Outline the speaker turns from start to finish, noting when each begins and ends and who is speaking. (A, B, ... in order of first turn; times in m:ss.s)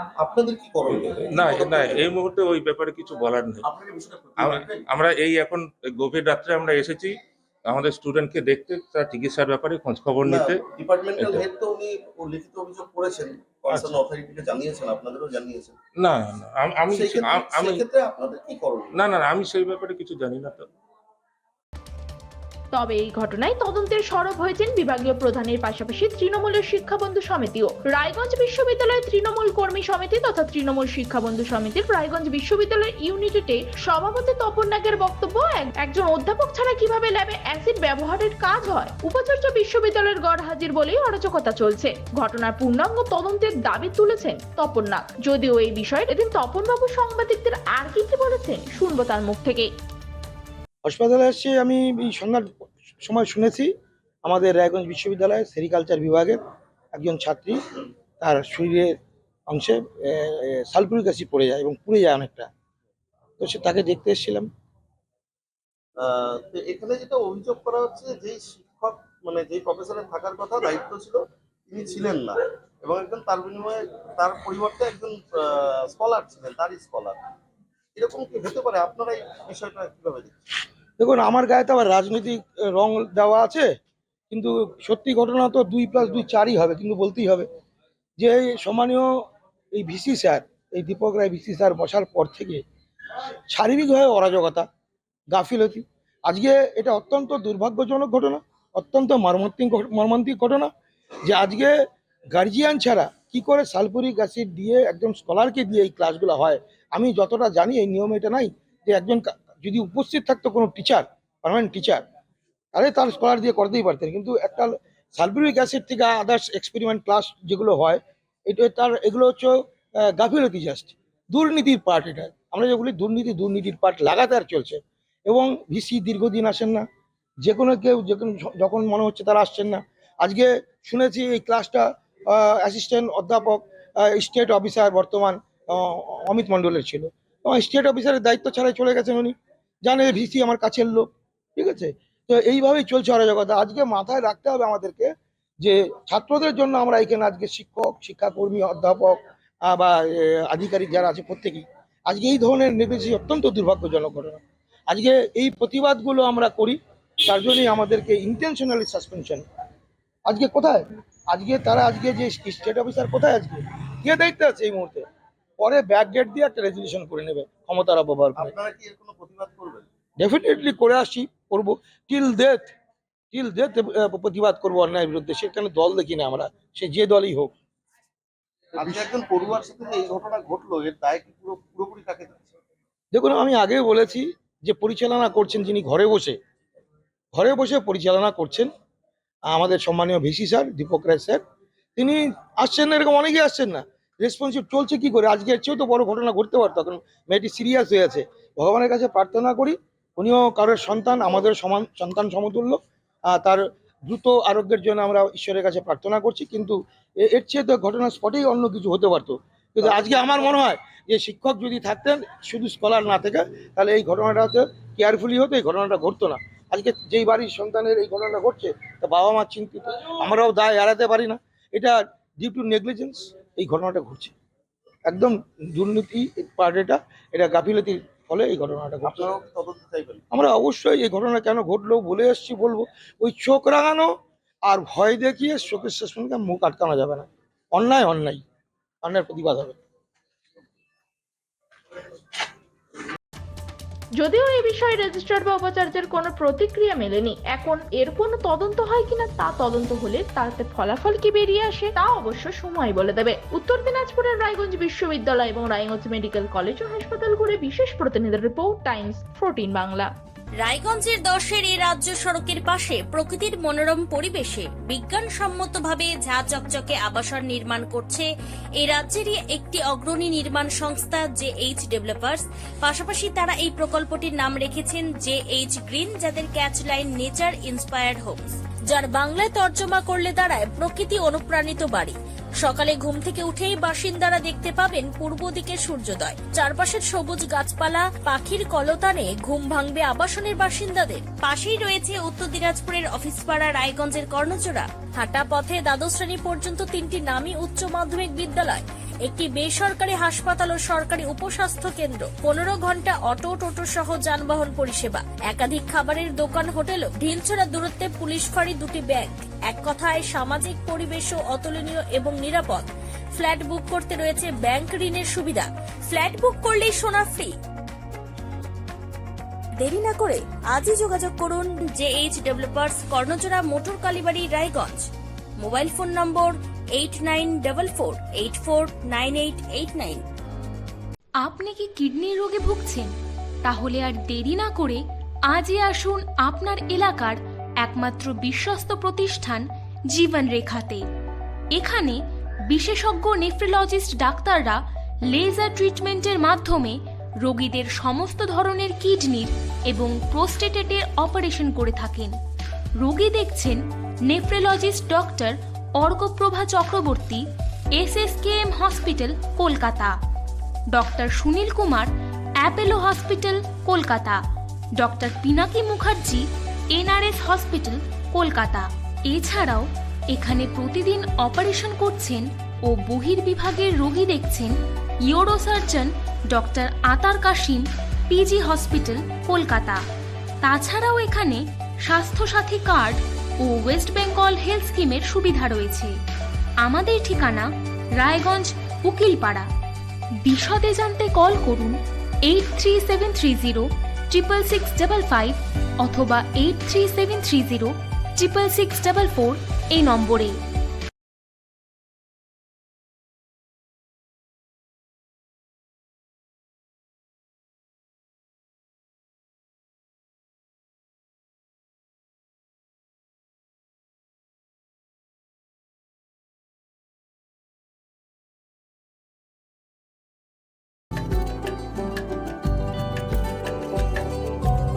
0:00.2-0:02.1 A
0:00.9-0:03.7 B
0:03.7-0:04.8 A
0:04.4-0:11.4 B
0:10.3-0:15.8 A
0:16.0-0:17.9 B
0:16.9-0:18.9 A
0:18.9-0:20.7 B
0:22.7-0:49.7 C
0:50.8-0:53.7 D
0:54.2-0:56.4 D
0:56.9-0:57.6 D
0:58.2-0:58.9 D
0:59.5-1:02.5 D
1:03.4-1:04.5 D
1:06.0-1:17.2 A
1:18.0-1:20.3 A
1:21.0-1:23.7 D
1:24.3-1:27.5 D
1:28.2-1:29.1 D
1:29.7-1:32.6 D
1:33.5-1:34.7 D
1:35.3-1:40.7 D
1:41.3-1:41.7 D
1:42.3-1:52.0 D
1:52.7-2:06.8 D
2:07.4-2:39.4 D
2:40.3-2:45.0 D
2:45.6-2:48.5 D
2:48.4-2:49.9 A
2:50.2-2:52.7 D
2:53.3-2:57.5 D
2:58.8-3:02.5 A
3:03.1-3:06.4 D
3:07.3-3:08.7 D
3:09.5-3:11.4 D
3:12.0-3:22.8 D
3:23.3-3:44.3 D
3:45.1-3:49.4 D
3:49.1-3:50.2 A
3:50.3-3:54.1 D
3:54.7-3:58.4 D
3:59.0-3:59.8 D
4:04.2-4:20.1 C
4:20.6-4:28.3 E
4:28.8-4:42.1 E
4:42.6-5:12.8 E
5:13.4-5:17.5 E
5:19.8-5:25.1 E
5:25.6-5:30.2 E
5:31.4-5:33.1 F
5:33.6-5:41.0 F
5:41.8-5:42.2 F
5:42.7-5:44.8 F
5:45.3-5:52.3 F
5:53.0-5:57.4 F
5:58.0-6:00.1 F
6:00.9-6:04.4 F
6:05.0-6:14.7 F
6:15.3-6:20.0 F
6:20.6-6:26.1 F
6:26.8-6:29.7 F
6:30.4-6:40.6 F